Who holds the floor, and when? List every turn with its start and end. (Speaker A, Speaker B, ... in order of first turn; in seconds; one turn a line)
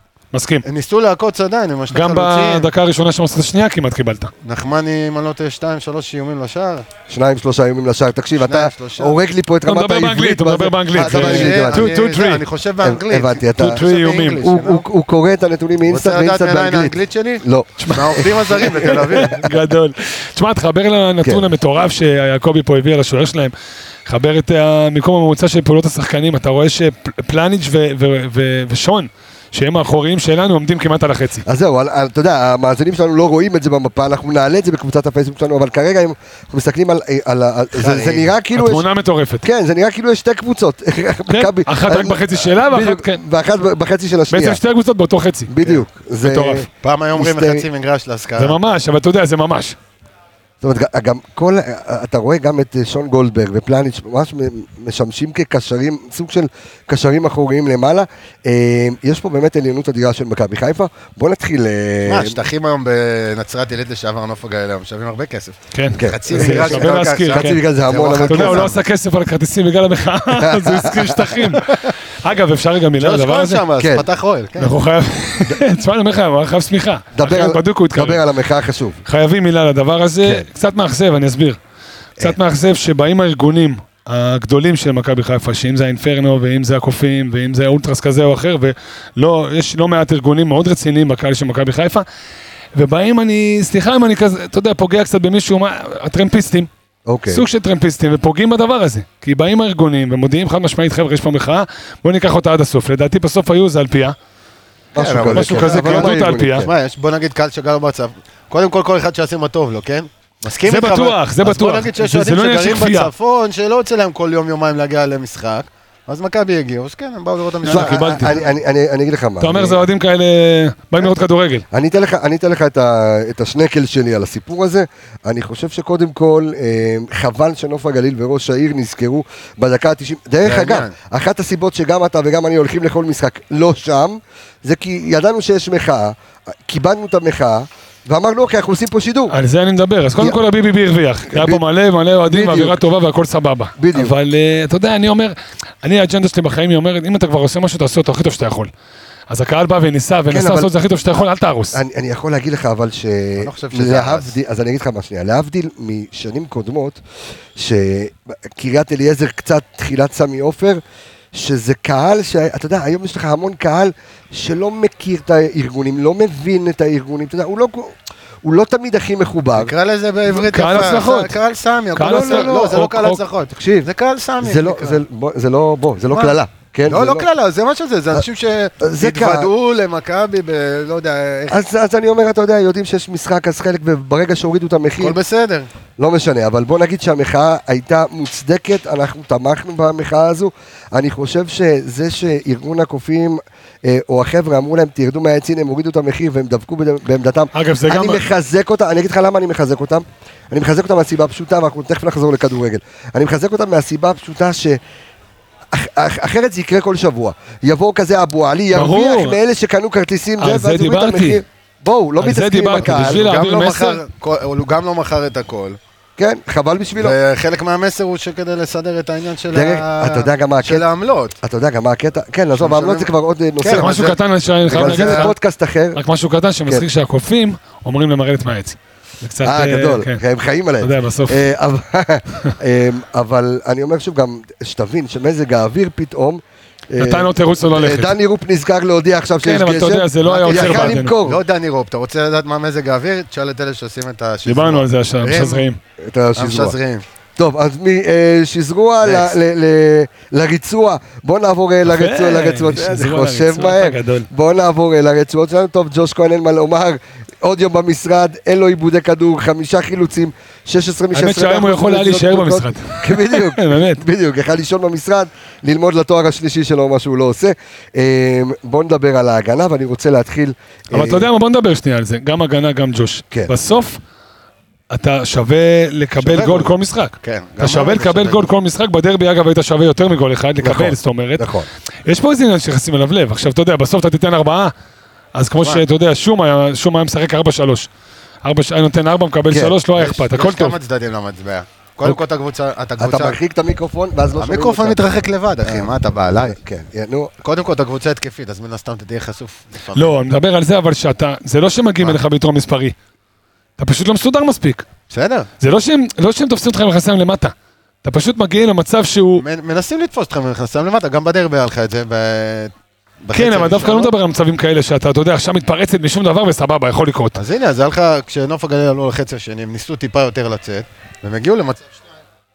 Speaker A: 0.3-0.7
Speaker B: 0.6-2.7
Speaker A: 1.9-4.3
Speaker B: 4.4-6.9
Speaker C: 7.1-11.9
Speaker B: 8.4-9.2
Speaker A: 9.7-12.4
Speaker B: 11.0-14.8
Speaker C: 12.8-13.8
Speaker A: 13.6-14.5
Speaker C: 14.4-19.3
Speaker B: 15.9-19.4
Speaker A: 17.8-23.5
Speaker C: 21.2-21.5
Speaker A: 24.1-31.4
Speaker C: 31.5-38.9
Speaker B: 37.7-38.3
Speaker A: 38.5-39.5
Speaker C: 39.4-44.6
Speaker A: 41.3-43.2
Speaker A: 44.3-45.5
Speaker C: 45.5-47.6
Speaker A: 46.2-46.7
Speaker B: 46.8-48.6
Speaker A: 48.4-49.8
Speaker C: 50.6-62.4
Speaker B: 62.1-68.8
Speaker A: 65.7-67.6
Speaker C: 66.0-68.7
Speaker A: 68.2-73.6
Speaker C: 70.3-71.4
Speaker B: 73.0-74.8
Speaker C: 73.8-74.1
Speaker A: 74.6-78.2
Speaker C: 77.2-79.0
Speaker A: 79.1-81.6
Speaker A: 82.2-92.1
Speaker A: 92.8-96.7
Speaker C: 97.1-97.4
Speaker A: 97.3-104.2
Speaker C: 105.0-106.7
Speaker B: 105.0-118.5
Speaker A: 105.3-106.7
Speaker A: 110.7-113.1
Speaker A: 117.6-118.4
Speaker C: 117.7-119.8
Speaker A: 119.4-121.7
Speaker C: 121.7-139.4
Speaker B: 130.4-130.9
Speaker A: 139.3-148.7
Speaker C: 141.3-141.6
Speaker C: 142.3-142.8
Speaker C: 143.8-144.2
Speaker A: 149.3-151.8
Speaker C: 150.3-150.7
Speaker C: 151.7-157.0
Speaker B: 153.4-154.3
Speaker C: 157.6-160.8
Speaker C: 161.3-169.7
Speaker B: 169.6-175.0
Speaker A: 170.3-171.4
Speaker A: 172.0-173.2
Speaker C: 172.0-172.8
Speaker C: 173.5-173.9
Speaker C: 174.4-177.2
Speaker B: 176.1-181.6
Speaker C: 178.8-179.5
Speaker C: 181.5-185.2
Speaker B: 185.0-185.7
Speaker C: 186.0-204.8
Speaker A: 197.5-198.2
Speaker C: 205.7-213.2
Speaker A: 208.7-209.4
Speaker A: 210.4-211.4
Speaker A: 212.2-214.0
Speaker B: 212.8-215.8
Speaker C: 216.2-217.2
Speaker B: 217.0-221.4
Speaker C: 219.5-220.8
Speaker C: 221.4-224.1
Speaker B: 222.6-223.1
Speaker B: 223.6-224.2
Speaker A: 223.7-225.3
Speaker C: 224.7-226.0
Speaker B: 224.7-225.3
Speaker A: 225.9-230.2
Speaker C: 229.4-241.4
Speaker A: 230.8-231.4
Speaker A: 237.0-238.2
Speaker A: 239.4-241.1
Speaker B: 240.2-245.7
Speaker A: 244.4-245.8
Speaker C: 246.0-246.8
Speaker B: 246.4-247.0
Speaker C: 247.4-271.3
Speaker B: 249.0-249.3
Speaker A: 251.8-254.3
Speaker A: 261.1-264.0
Speaker A: 270.9-274.0
Speaker A: 274.9-281.5
Speaker B: 276.2-278.5
Speaker C: 280.6-281.7
Speaker A: 282.1-284.7
Speaker A: 285.4-287.9
Speaker A: 288.4-290.8
Speaker C: 289.5-289.8
Speaker B: 289.9-293.4
Speaker C: 293.0-295.1
Speaker B: 294.4-296.6
Speaker C: 295.6-297.3
Speaker B: 297.4-300.2
Speaker A: 299.9-303.0
Speaker A: 303.8-304.9
Speaker B: 305.1-305.5
Speaker A: 305.6-309.4
Speaker B: 309.4-312.7
Speaker B: 313.2-314.1
Speaker A: 313.3-317.4
Speaker B: 317.4-321.9